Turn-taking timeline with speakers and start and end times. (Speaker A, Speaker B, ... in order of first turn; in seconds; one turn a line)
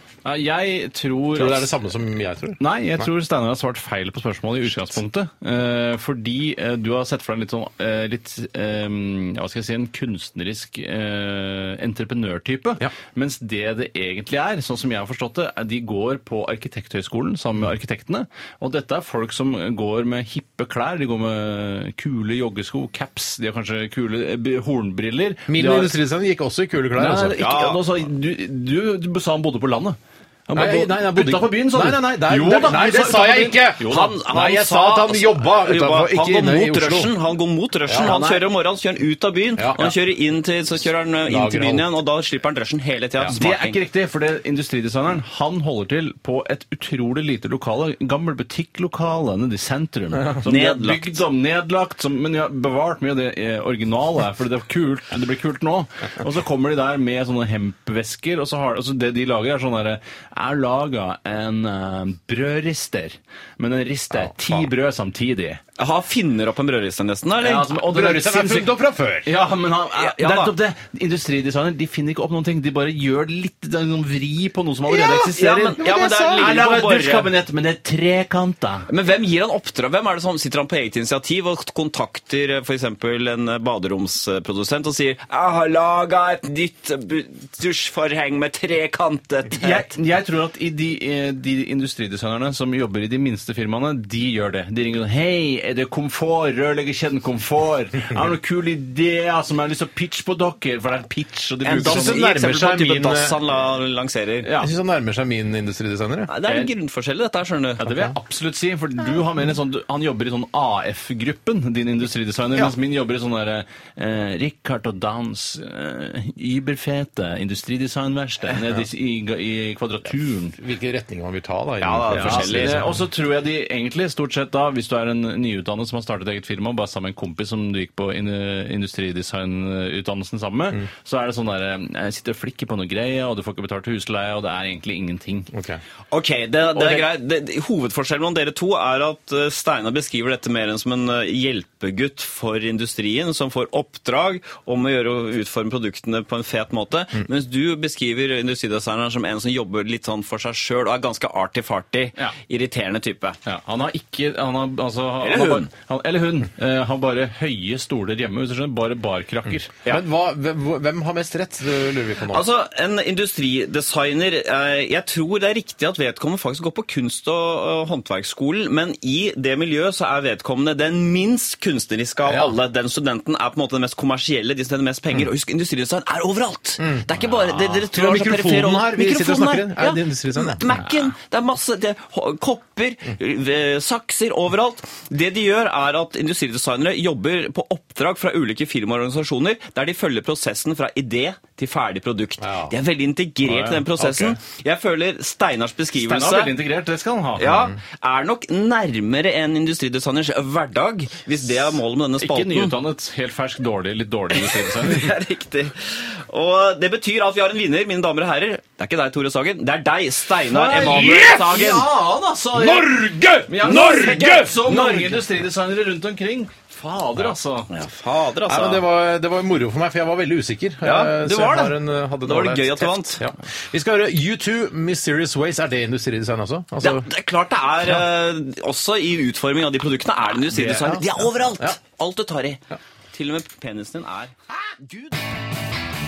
Speaker A: 0.2-1.7
Speaker B: 1.4-3.1
Speaker A: 2.6-25.9
Speaker B: 25.5-27.4
Speaker A: 26.9-34.2
Speaker C: 27.4-27.8
Speaker B: 30.5-37.1
Speaker C: 33.8-43.8
Speaker B: 37.9-38.2
Speaker A: 38.0-38.4
Speaker B: 39.5-40.0
Speaker B: 41.2-41.9
Speaker A: 43.3-65.6
Speaker C: 50.4-51.2
Speaker B: 64.1-64.7
Speaker C: 65.8-67.7
Speaker A: 67.4-68.7
Speaker B: 67.7-69.3
Speaker A: 69.2-78.9
Speaker C: 69.9-70.5
Speaker B: 74.9-76.7
Speaker C: 75.2-77.3
Speaker C: 78.9-89.8
Speaker A: 89.5-102.2
Speaker C: 101.6-104.5
Speaker B: 101.8-103.4
Speaker A: 104.4-104.7
Speaker B: 104.6-106.3
Speaker C: 106.3-107.8
Speaker A: 107.8-120.6
Speaker B: 120.6-123.0
Speaker C: 121.8-122.9
Speaker A: 122.1-135.5
Speaker B: 135.5-135.8
Speaker C: 136.1-153.4
Speaker A: 136.7-137.1
Speaker A: 153.4-159.7
Speaker C: 155.2-155.7
Speaker B: 159.8-162.5
Speaker C: 162.3-196.5
Speaker B: 172.2-172.6
Speaker B: 176.8-177.1
Speaker B: 177.9-180.6
Speaker B: 192.4-192.7
Speaker A: 193.4-194.4
Speaker A: 195.9-197.5
Speaker C: 197.4-202.7
Speaker B: 197.4-197.8
Speaker A: 202.2-205.1
Speaker C: 204.3-211.9
Speaker A: 210.4-217.7
Speaker C: 212.6-215.2
Speaker C: 217.7-218.8
Speaker B: 218.4-227.1
Speaker C: 220.8-223.2
Speaker C: 226.8-232.6
Speaker B: 230.5-231.8
Speaker C: 233.1-235.1